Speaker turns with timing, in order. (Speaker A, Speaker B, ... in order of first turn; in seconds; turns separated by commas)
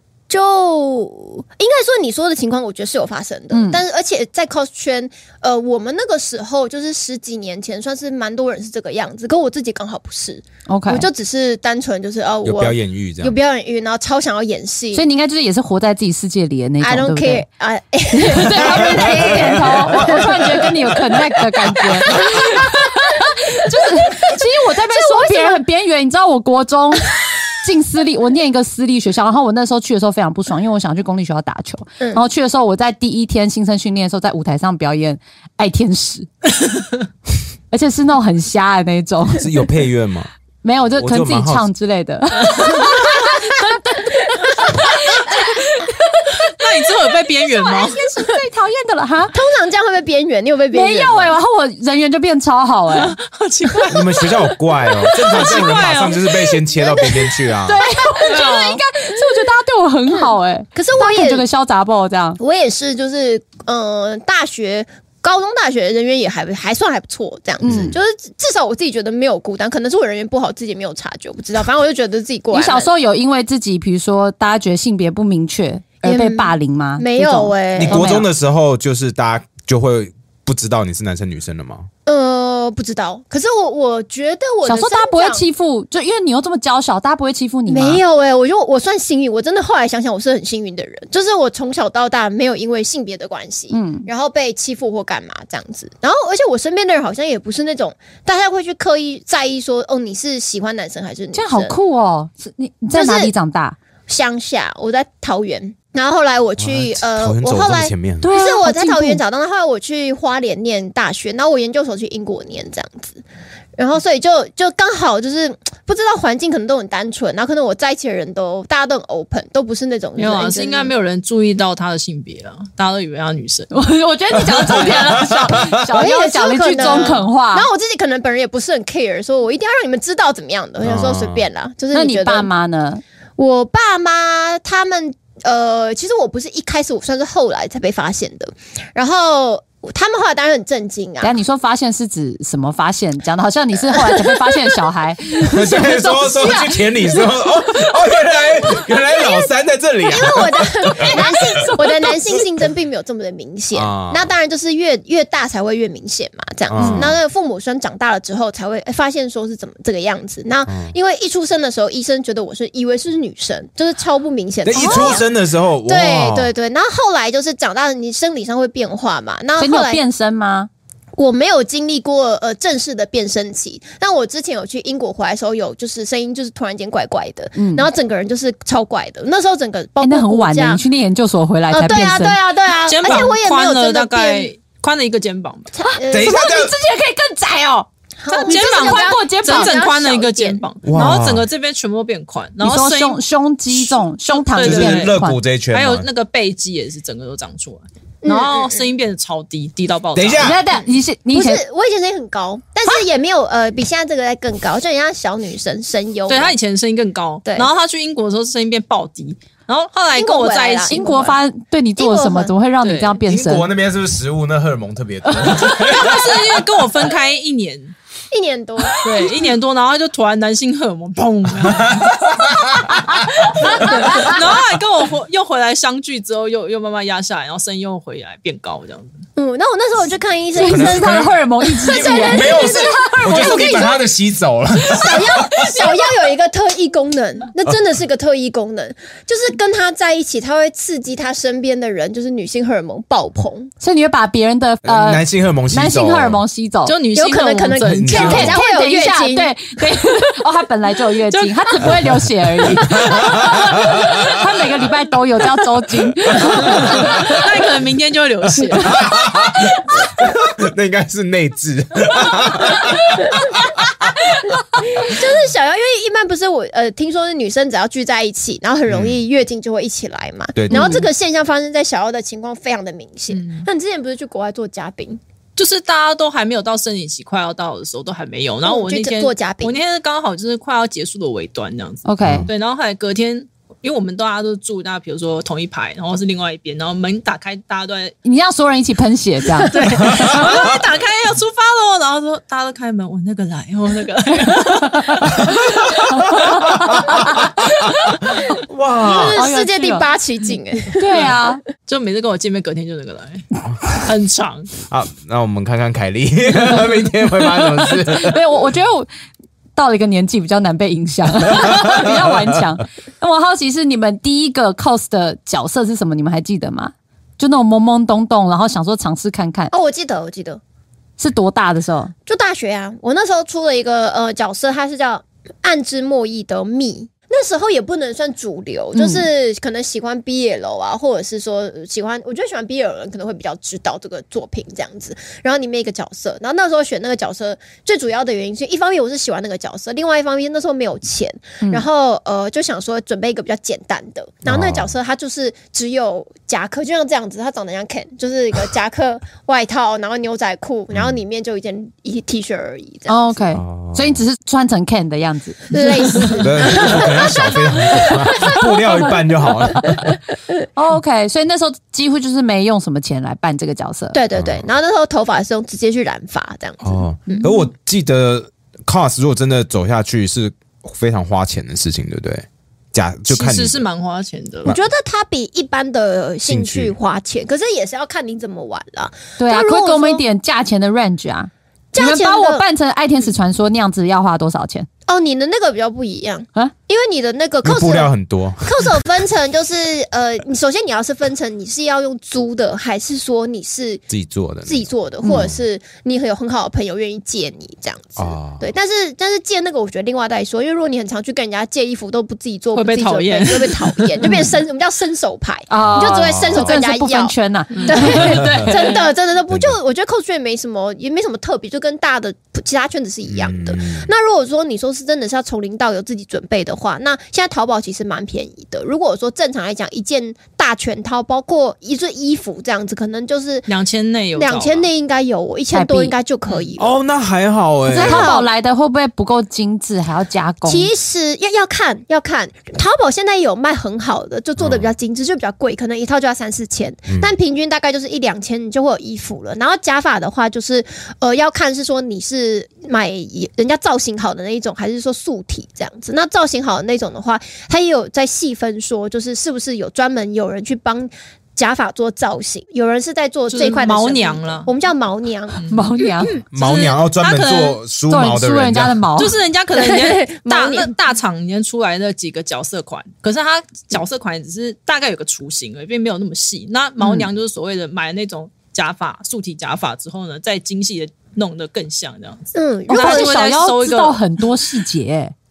Speaker A: 0.3-15.1, Speaker B: 3.5-3.8, Speaker B: 10.7-11.1, Speaker C: 12.4-13.4, Speaker B: 14.9-17.5, Speaker A: 16.8-21.0, Speaker B: 18.1-36.3, Speaker C: 18.6-20.8, Speaker A: 21.8-22.6, Speaker A: 24.9-25.6, Speaker B: 37.7-39.5, Speaker C: 39.4-40.3, Speaker B: 40.6-46.7, Speaker C: 41.0-41.7, Speaker D: 46.5-48.0, Speaker B: 47.5-49.4, Speaker A: 49.3-51.4, Speaker B: 50.7-53.2, Speaker D: 52.9-54.4, Speaker C: 53.9-57.8, Speaker D: 55.0-56.4, Speaker A: 56.7-58.6, Speaker B: 57.7-62.4, Speaker D: 58.3-58.8, Speaker A: 60.1-61.5, Speaker A: 62.4-72.9, Speaker B: 67.6-67.9, Speaker C: 67.6-68.0, Speaker B: 72.5-78.3, Speaker A: 76.0-78.0, Speaker C: 77.8-81.9, Speaker A: 82.1-85.4, Speaker B: 84.7-88.0, Speaker A: 87.7-101.8, Speaker B: 93.7-94.1, Speaker B: 101.3-103.8, Speaker A: 102.9-103.3, Speaker A: 104.1-113.2, Speaker C: 106.6-108.3, Speaker B: 108.2-109.2, Speaker A: 113.8-120.9, Speaker D: 120.2-123.7, Speaker B: 123.7-127.7, Speaker C: 124.4-125.7, Speaker A: 125.9-132.5, Speaker C: 130.8-131.5, Speaker B: 131.9-133.0, Speaker A: 133.4-141.3, Speaker B: 141.2-147.3, Speaker A: 143.9-144.7, Speaker C: 145.4-151.2, Speaker A: 148.8-149.5, Speaker A: 150.1-165.3, Speaker B: 151.0-152.2, Speaker C: 153.7-154.3, Speaker C: 156.7-157.2, Speaker B: 156.8-157.1, Speaker C: 160.7-160.9, Speaker C: 164.7-166.5, Speaker B: 164.8-165.2, Speaker A: 165.9-170.0, Speaker B: 169.6-170.7, Speaker A: 171.2-180.8, Speaker B: 177.6-177.9, Speaker B: 180.0-182.4, Speaker A: 181.7-184.5, Speaker D: 182.8-185.7, Speaker A: 185.7-186.4, Speaker B: 185.8-189.8, Speaker C: 186.1-186.7, Speaker A: 188.2-190.7, Speaker D: 188.4-193.2, Speaker C: 190.8-191.5, Speaker B: 192.6-195.4, Speaker D: 193.8-195.2, Speaker C: 194.6-196.1, Speaker D: 195.7-200.7, Speaker A: 198.2-198.9, Speaker C: 200.2-200.6, Speaker B: 200.4-201.6, Speaker A: 201.3-206.6, Speaker D: 206.3-211.1, Speaker A: 210.1-211.4, Speaker B: 210.9-213.7, Speaker A: 212.0-212.5, Speaker D: 212.8-213.2, Speaker C: 213.3-216.6, Speaker D: 215.4-217.9, Speaker A: 218.3-219.1, Speaker D: 219.0-221.9, Speaker C: 221.6-224.2, Speaker B: 222.8-224.4, Speaker D: 223.8-229.2, Speaker A: 229.4-234.0, Speaker B: 230.6-233.9, Speaker C: 230.6-235.8, Speaker A: 234.9-243.7, Speaker B: 243.8-247.0, Speaker C: 244.8-246.4, Speaker D: 246.9-248.5, Speaker A: 247.1-249.5, Speaker C: 247.9-248.6, Speaker B: 248.1-257.4, Speaker D: 251.3-251.9, Speaker C: 252.7-254.4, Speaker C: 256.4-257.4, Speaker D: 256.6-259.0, Speaker B: 258.8-259.4, Speaker C: 258.8-264.1, Speaker A: 264.8-275.2, Speaker C: 268.9-269.2, Speaker C: 270.6-271.0, Speaker B: 270.7-271.1, Speaker D: 273.3-273.6, Speaker D: 275.6-288.2, Speaker A: 278.6-279.8, Speaker B: 282.1-282.5, Speaker C: 282.2-282.5, Speaker B: 288.2-290.5, Speaker D: 289.6-295.6, Speaker C: 290.1-290.7, Speaker B: 294.9-295.4, Speaker C: 295.5-299.4, Speaker B: 296.1-298.1, Speaker A: 299.1-301.3, Speaker B: 299.3-300.1, Speaker B: 300.9-301.6, Speaker D: 301.9-304.7, Speaker C: 304.9-308.4, Speaker B: 307.6-309.1, Speaker B: 309.8-319.7, Speaker C: 311.5-312.6, Speaker A: 319.7-320.6, Speaker B: 321.2-322.1, Speaker A: 322.3-353.3, Speaker B: 328.9-329.2, Speaker C: 344.4-344.9, Speaker C: 350.9-351.2, Speaker B: 353.1-356.4, Speaker C: 353.5-354.2, Speaker A: 355.7-358.7, Speaker C: 356.4-360.1, Speaker B: 360.8-364.2, Speaker A: 364.1-367.5, Speaker C: 364.3-364.7, Speaker C: 366.8-373.8, Speaker D: 373.3-374.8, Speaker A: 374.7-380.2, Speaker C: 376.4-376.9, Speaker B: 379.4-384.9, Speaker A: 381.9-382.6, Speaker A: 385.1-388.1, Speaker C: 387.6-389.0, Speaker A: 388.6-394.0, Speaker C: 394.1-395.6, Speaker A: 394.7-423.7, Speaker C: 398.2-398.7, Speaker D: 402.7-404.5, Speaker B: 405.7-409.0, Speaker C: 405.8-406.8, Speaker D: 407.7-409.1, Speaker C: 408.2-408.7, Speaker C: 409.5-409.8, Speaker C: 413.3-414.1, Speaker D: 423.7-424.9, Speaker A: 424.4-427.0, Speaker B: 425.7-426.1, Speaker C: 426.8-428.3, Speaker B: 427.9-430.9, Speaker A: 427.9-428.5, Speaker A: 430.7-456.2, Speaker C: 434.6-434.9, Speaker C: 437.1-437.4, Speaker D: 453.5-454.7, Speaker D: 455.6-455.9, Speaker B: 455.7-456.4, Speaker C: 456.5-459.1, Speaker D: 456.6-457.8, Speaker B: 458.1-459.4, Speaker D: 459.2-474.2, Speaker A: 459.7-460.9, Speaker A: 472.6-473.4, Speaker B: 472.9-475.3